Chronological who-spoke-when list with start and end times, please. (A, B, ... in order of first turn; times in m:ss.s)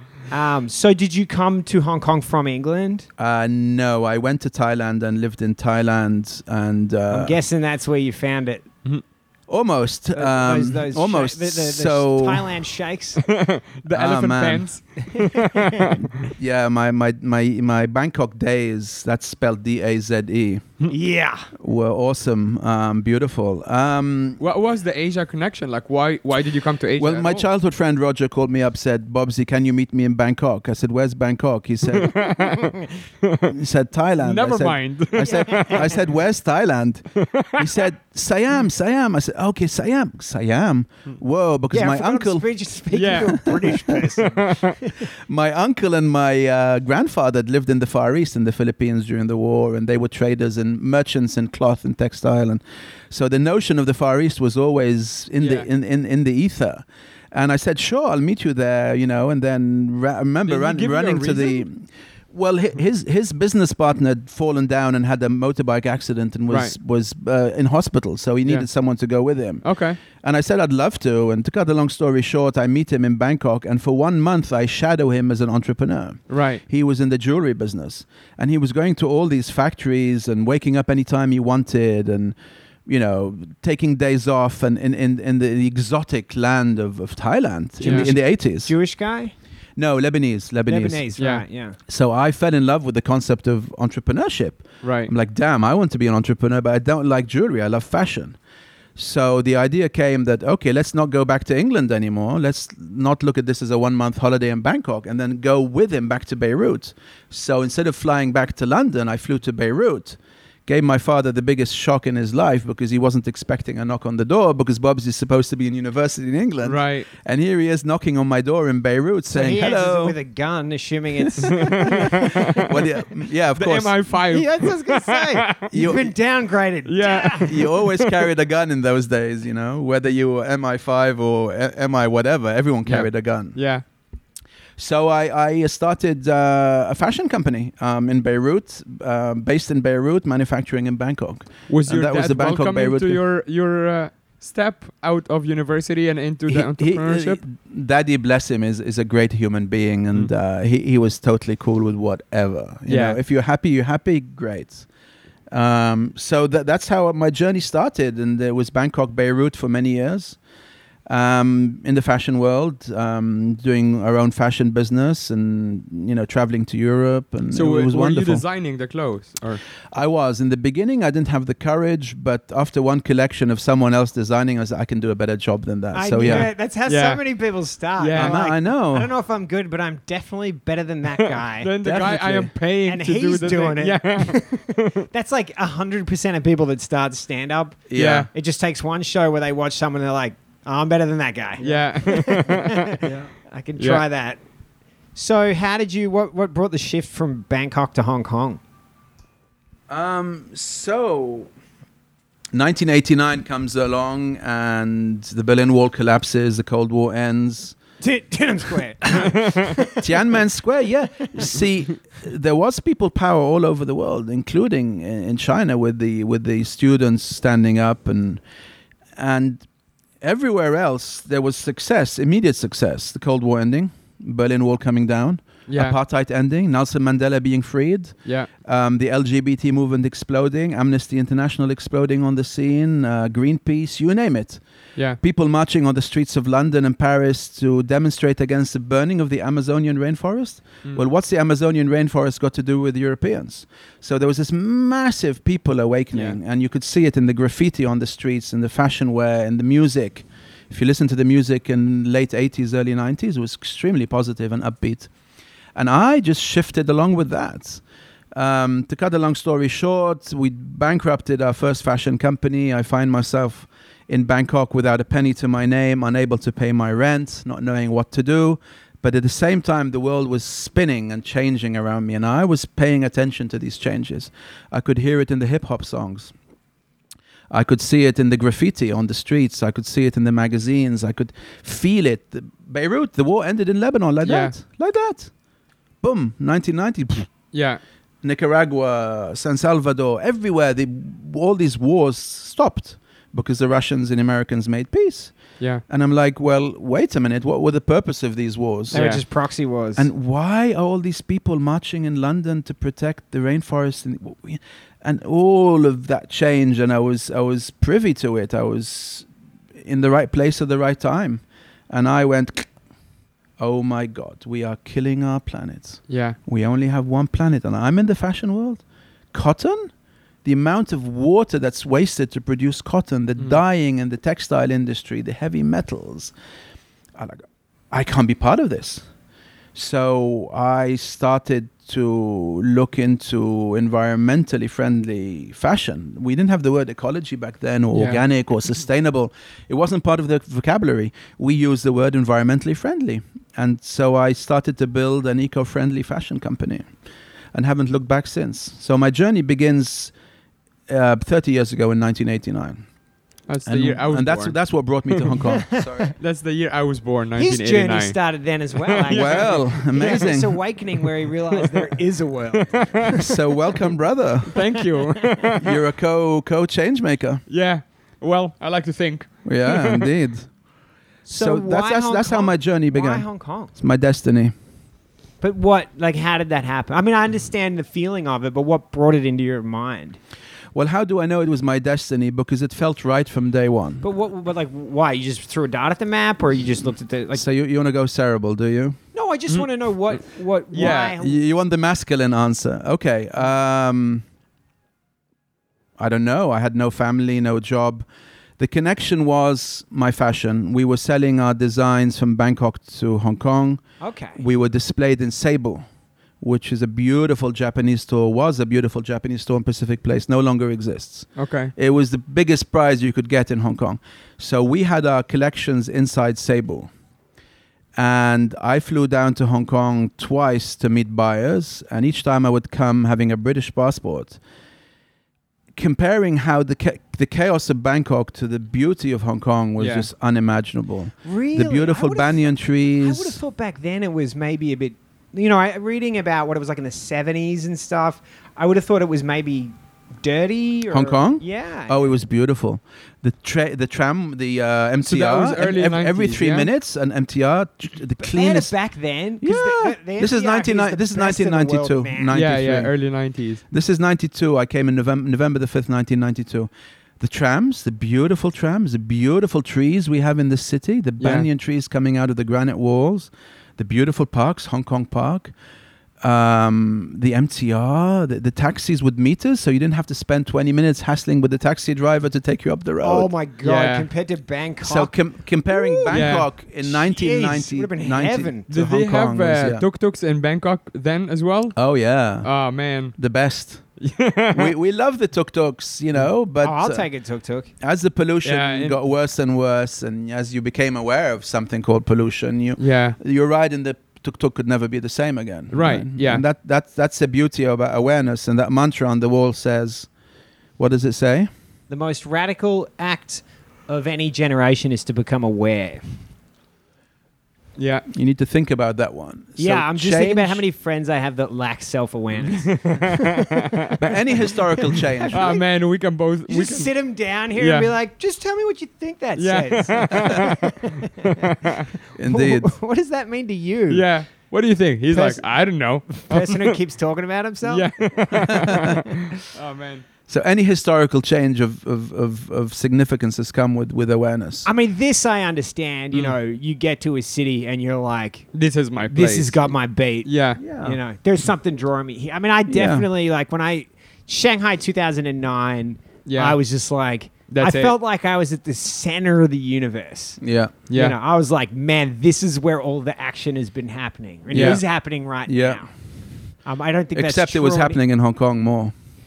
0:00.3-0:03.1 A
0:03.2-0:07.4 B
0:07.1-0:08.7 A
0:09.5-0:12.6 B
0:10.2-0:13.2 A
0:13.2-0:16.1 C
0:13.9-0:14.7 B
0:16.0-0:20.8 B
0:20.9-0:21.5 A
0:21.6-0:24.4 B
0:24.4-0:27.4 C
0:27.0-0:32.3 B
0:31.9-0:33.6 C
0:33.5-0:42.5 B
0:34.2-0:36.0 C
0:35.3-0:35.8 A
0:37.2-0:37.8 C
0:41.7-0:45.1 A
0:42.9-0:44.8 C
0:45.2-1:09.6 B
0:55.4-0:55.7 C
1:00.5-1:01.6 C
1:06.5-1:06.8 C
1:09.6-1:10.0 C
1:10.2-1:22.4 B
1:16.3-1:16.6 C
1:22.9-1:28.7 B
1:27.8-1:29.3 A
1:27.8-1:28.1 C
1:29.8-1:31.1 B
1:30.7-1:31.8 A
1:31.2-1:31.4 C
1:31.9-1:38.4 B
1:34.8-1:35.1 C
1:39.0-2:00.2 B
1:56.6-1:57.1 C
1:59.3-2:02.4 A
2:01.4-2:04.0 B
2:01.7-2:02.6 C
2:03.6-2:05.7 C
2:04.3-2:07.5 A
2:05.7-2:06.1 B
2:06.9-2:08.2 C
2:07.4-2:13.6 B
2:12.9-2:13.8 C
2:14.8-2:23.2 B
2:21.7-2:27.4 C
2:26.5-2:34.9 B
2:32.9-2:33.2 C
2:35.5-2:40.4 B
2:41.1-2:48.4 B
2:47.5-2:49.6 C
2:49.9-2:56.5 B
2:55.9-3:01.7 A
2:56.2-2:57.2 C
2:58.0-2:58.4 C
2:58.2-2:59.1 B
3:01.4-3:05.0 C
3:01.8-3:02.5 B
3:02.9-3:14.4 A
3:07.9-3:08.3 B
3:08.0-3:08.3 C
3:11.6-3:13.0 C
3:13.0-3:13.3 B
3:13.8-3:14.0 C
3:15.2-3:18.6 A
3:19.9-3:21.5 B
3:22.5-3:27.8 B
3:28.0-3:30.3 A
3:30.0-3:38.4 B
3:39.2-3:39.7 B
3:40.2-3:54.6 B
3:45.7-3:46.0 C
3:55.2-4:15.1 B
4:06.1-4:06.4 C
4:15.8-4:17.8 B
4:18.3-4:36.3 B
4:37.5-4:45.3 B
4:44.2-4:44.6 C
4:46.0-4:47.3 B
4:47.5-4:47.8 C
4:48.2-4:59.1 B
4:58.9-5:00.1 A
4:58.9-4:59.2 C
5:00.0-5:09.3 B
5:09.8-5:12.7 B
5:13.6-5:18.8 B
5:16.1-5:16.4 C
5:19.3-5:19.9 B
5:20.4-5:26.3 B
5:27.2-5:29.1 B
5:29.8-5:46.9 B
5:37.9-5:38.2 C
5:47.5-5:50.1 B
5:50.9-5:52.8 B
5:53.5-5:54.6 C
5:53.7-5:56.1 B
5:55.1-5:55.4 C
5:55.5-5:56.1 A
5:56.2-5:58.2 C
5:57.4-6:03.0 A
5:58.9-6:00.2 C
5:59.1-6:00.6 B
6:02.5-6:03.2 C
6:03.1-6:04.6 B
6:04.5-6:05.7 C
6:05.6-6:07.4 B
6:07.5-6:10.1 C
6:09.4-6:10.5 B
6:11.3-6:13.7 A
6:11.3-6:14.5 B
6:15.4-6:20.2 A
6:20.7-6:24.0 B
6:24.0-6:27.4 A
6:27.3-6:29.0 B
6:29.1-6:31.4 A
6:30.7-6:31.2 C
6:30.9-6:34.2 B
6:36.0-6:38.0 B
6:38.6-6:43.8 B
6:44.0-6:44.4 A
6:44.4-6:45.8 B
6:46.4-6:56.9 B
6:51.4-6:51.7 C
6:58.0-7:04.4 B
7:05.8-7:13.4 B
7:09.8-7:10.1 C
7:11.2-7:22.1 A
7:20.9-7:28.7 B
7:25.1-7:26.7 C
7:28.2-7:32.4 A
7:29.4-7:32.9 B
7:32.3-7:33.6 C
7:33.7-7:45.5 B
7:41.2-7:41.5 C
7:46.2-7:53.3 B
7:53.0-7:55.2 A
7:53.6-7:54.1 C
7:54.8-7:59.9 B
7:55.7-7:58.7 A
7:56.1-7:56.5 C
7:58.7-8:01.8 C
8:01.8-8:02.5 B
8:02.4-8:03.2 C
8:03.2-8:03.9 B
8:04.0-8:04.7 C
8:04.5-8:07.1 B
8:06.6-8:07.7 A
8:07.8-8:20.1 B
8:08.4-8:09.0 C
8:12.8-8:13.2 C
8:15.7-8:16.4 C
8:20.8-8:21.5 B
8:21.9-8:26.0 A
8:27.8-8:28.1 C
8:28.1-8:30.6 B
8:29.6-8:33.7 A
8:32.5-8:34.0 C
8:34.0-8:35.6 B
8:35.2-8:35.6 A
8:35.3-8:36.9 C
8:36.5-8:41.4 A
8:37.6-8:37.9 C
8:39.4-8:41.8 C
8:42.2-8:42.7 B
8:42.3-8:44.0 A
8:43.9-8:46.8 C
8:45.1-8:45.5 A
8:46.1-8:47.9 A
8:47.6-8:50.0 C
8:48.4-8:49.0 B
8:50.3-8:54.7 B
8:54.6-8:58.5 A
8:58.5-9:00.6 C
8:59.1-9:10.4 A
9:00.6-9:01.0 B
9:02.7-9:03.1 B
9:06.3-9:06.6 C
9:07.5-9:07.9 C
9:10.4-9:10.8 B
9:10.9-9:11.2 C
9:10.9-9:15.9 A
9:14.5-9:14.8 C
9:14.5-9:14.8 B
9:15.5-9:15.8 B
9:16.6-9:18.0 A
9:17.1-9:18.9 B